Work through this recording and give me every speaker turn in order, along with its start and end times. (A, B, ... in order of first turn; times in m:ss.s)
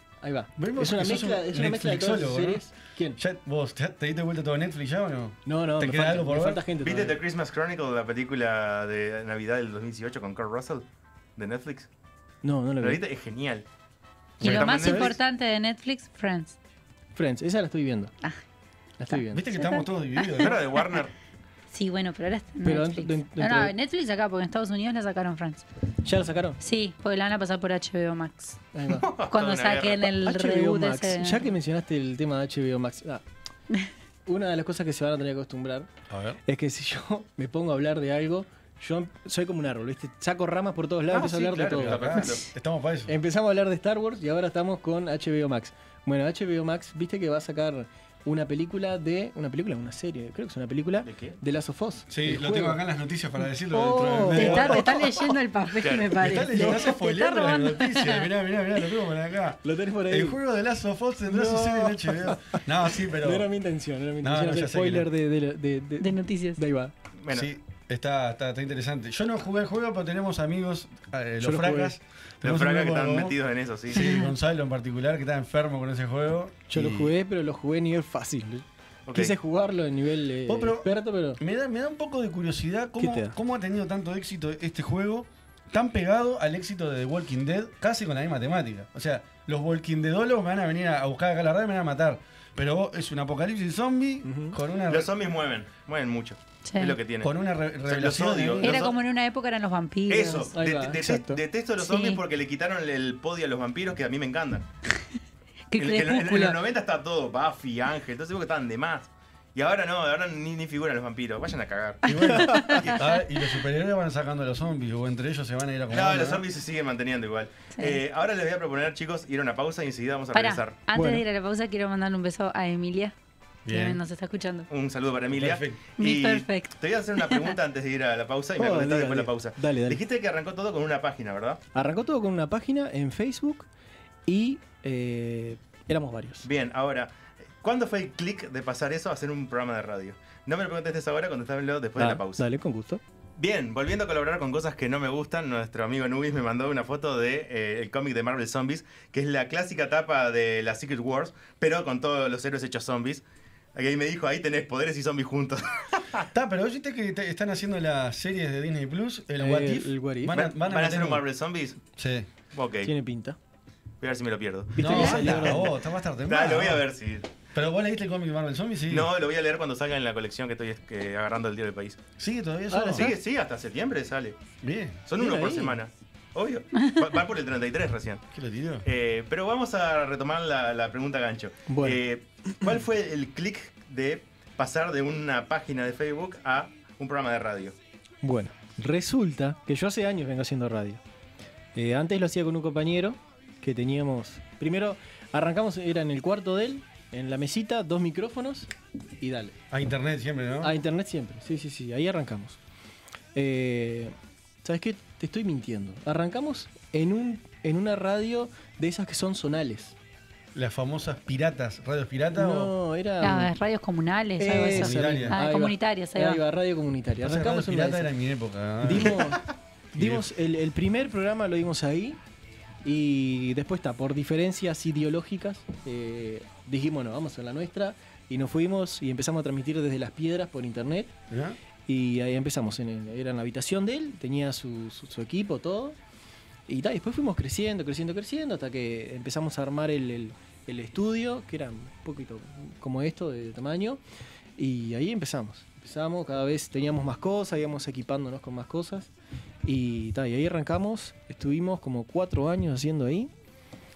0:00.2-0:03.2 A
0:00.6-0:02.6 B
0:03.2-0:06.6 B
0:05.5-0:07.2 A
0:06.8-0:10.8 C
0:11.4-0:11.9 C
0:12.4-0:13.0 A
0:12.8-0:13.6 C
0:14.4-0:15.2 C
0:14.4-0:14.9 B
0:14.4-0:16.6 D
0:14.8-0:15.1 A
0:17.2-0:18.1 A
0:19.0-0:19.4 A
0:19.3-0:20.6 B
0:19.6-0:21.0 D
0:20.4-0:21.1 C
0:21.7-0:25.6 D
0:22.6-0:23.8 A
0:26.0-0:26.6 A
0:26.6-0:28.6 D
0:28.7-0:29.1 A
0:29.0-0:30.1 C
0:29.3-0:31.5 D
0:30.2-0:33.2 A
0:34.3-0:35.9 A
0:36.1-0:36.4 B
0:36.5-0:42.2 A
0:41.1-0:42.4 C
0:41.8-0:43.1 B
0:43.1-0:52.8 A
0:51.0-0:51.4 C
0:52.1-0:55.2 B
0:53.7-0:55.1 A
0:54.0-0:58.3 D
0:55.8-0:56.2 C
0:56.2-1:03.5 B
0:56.5-0:56.9 A
0:59.6-1:00.4 A
1:01.3-1:06.9 A
1:04.2-1:05.1 B
1:06.0-1:06.6 D
1:07.2-1:07.5 C
1:07.3-1:13.4 B
1:11.4-1:12.0 A
1:12.4-1:14.1 C
1:13.9-1:17.1 B
1:16.7-1:21.4 A
1:19.1-1:19.4 C
1:20.5-1:35.1 B
1:23.0-1:23.4 A
1:34.2-1:34.6 A
1:34.9-1:37.3 C
1:36.7-1:37.0 D
1:37.2-1:38.9 B
1:37.9-1:39.0 C
1:38.6-1:40.5 D
1:40.1-1:44.7 C
1:40.5-1:41.4 A
1:41.8-1:42.2 D
1:45.7-1:46.6 D
1:45.8-1:52.9 C
1:52.1-1:56.4 B
1:52.4-1:52.8 A
1:55.9-2:00.8 C
2:00.3-2:03.1 D
2:00.9-2:01.2 A
2:03.7-2:04.0 B
2:03.7-2:04.7 D
2:04.7-2:11.6 C
2:05.3-2:05.8 B
2:06.0-2:07.5 D
2:08.6-2:10.0 A
2:11.8-2:13.7 A
2:14.3-2:16.5 A
2:16.4-2:22.4 C
2:22.0-2:23.0 A
2:23.4-2:33.2 C
2:33.8-2:36.3 C
2:36.3-2:41.2 B
2:39.4-2:40.4 A
2:40.3-2:41.8 C
2:42.0-2:42.3 B
2:42.5-2:42.9 C
2:42.8-2:43.4 A
2:44.0-2:45.7 C
2:44.7-2:45.7 A
2:44.8-2:46.8 B
2:46.3-2:47.3 C
2:47.5-2:49.1 B
2:48.9-2:52.0 C
2:52.2-2:53.1 B
2:52.7-2:53.1 A
2:52.9-2:54.4 C
2:54.6-2:55.0 B
2:55.1-2:58.2 C
2:55.2-2:55.8 A
2:58.3-2:58.9 B
2:58.8-3:07.8 C
3:01.7-3:02.0 A
3:08.2-3:11.0 A
3:11.8-3:19.6 A
3:19.7-3:20.8 B
3:20.6-3:22.6 A
3:23.4-3:30.0 A
3:30.6-3:32.7 B
3:32.4-3:33.5 A
3:33.2-3:36.4 D
3:34.4-3:38.1 A
3:34.6-3:35.4 B
3:37.2-3:39.3 B
3:38.8-3:42.2 A
3:40.0-3:40.3 B
3:42.8-3:51.1 A
3:51.3-3:51.6 B
3:51.9-3:56.0 A
3:56.7-4:04.0 A
4:04.6-4:09.1 A
4:09.6-4:13.3 A